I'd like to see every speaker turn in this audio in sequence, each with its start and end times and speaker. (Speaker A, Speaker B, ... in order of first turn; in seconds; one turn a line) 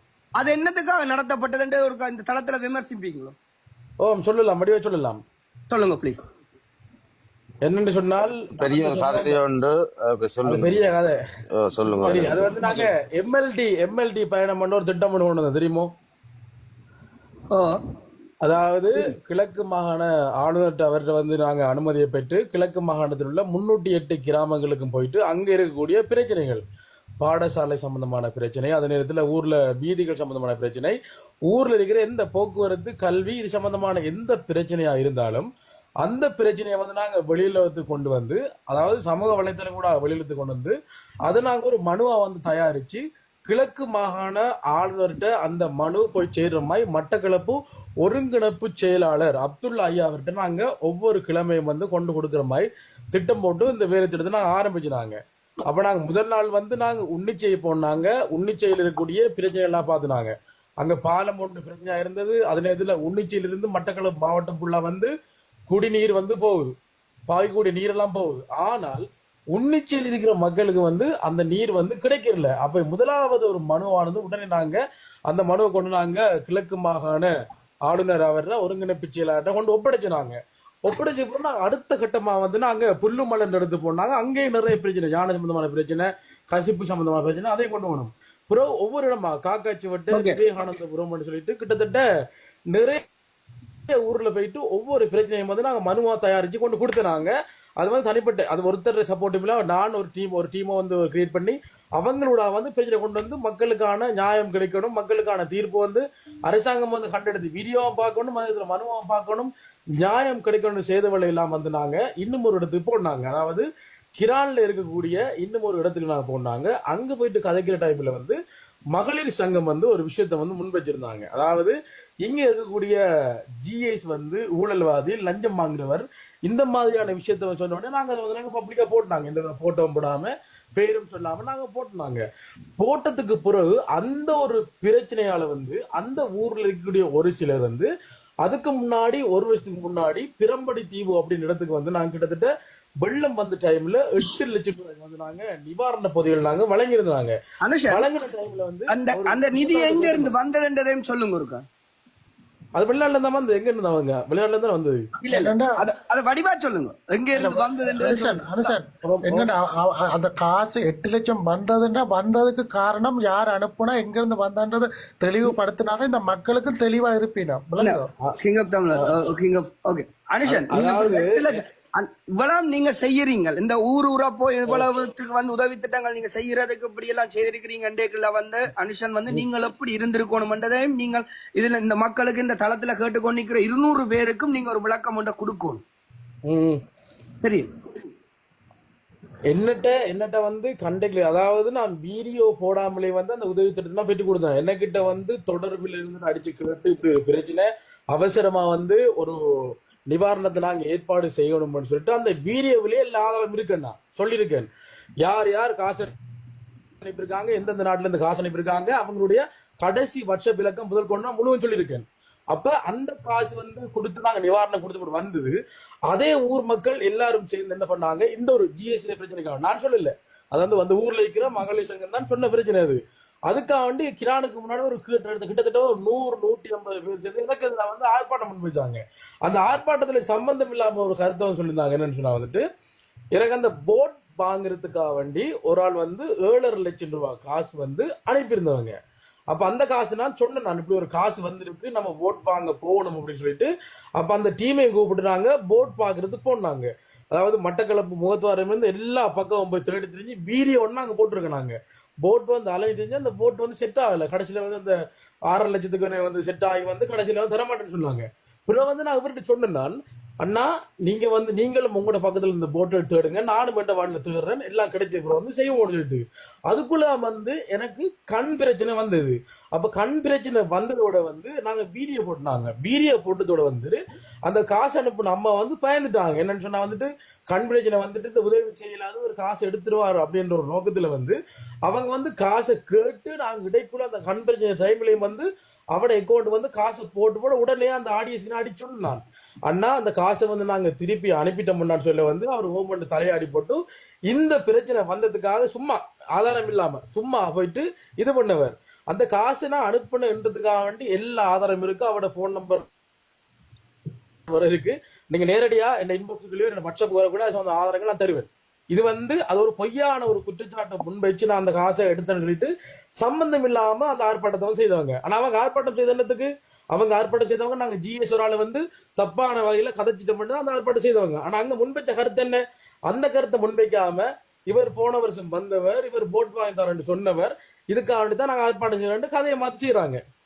Speaker A: 0.4-3.3
Speaker B: 4.0-5.2
Speaker A: 5.7-6.2
Speaker B: 7.6-9.4
Speaker C: 8.6-10.9
Speaker B: 10.4-11.2
Speaker C: 11.5-12.9
Speaker B: 12.0-15.9
Speaker A: 17.5-17.8
Speaker B: 18.4-26.6
Speaker B: 27.2-31.0
Speaker B: 31.5-35.5
Speaker B: 36.0-65.1
Speaker B: 65.7-66.7
Speaker B: 67.3-77.3
Speaker B: 77.9-92.0
Speaker A: 90.1-90.4
Speaker B: 92.7-93.0
Speaker B: 93.9-113.7
Speaker B: 114.2-118.4
Speaker B: 118.9-123.0
Speaker B: 123.6-132.2
Speaker B: 132.8-137.9
Speaker B: 138.4-142.5
Speaker B: 143.0-147.3
Speaker A: 147.6-148.0
Speaker B: 147.9-150.3
Speaker A: 148.9-151.6
Speaker B: 152.8-155.0
Speaker A: 155.2-158.7
Speaker D: 155.3-155.8
Speaker D: 157.4-167.7
Speaker B: 159.0-159.4
Speaker B: 167.7-168.4
Speaker A: 167.8-185.8
Speaker B: 170.4-171.5
Speaker B: 186.5-186.8
Speaker A: 187.4-187.7
Speaker B: 189.5-199.4
Speaker B: 200.1-204.7
Speaker B: 205.2-206.1
Speaker B: 207.0-215.6
Speaker B: 216.1-232.6
Speaker B: 233.3-238.9
Speaker B: 239.5-254.9
Speaker B: 255.5-302.9
Speaker B: 304.5-330.2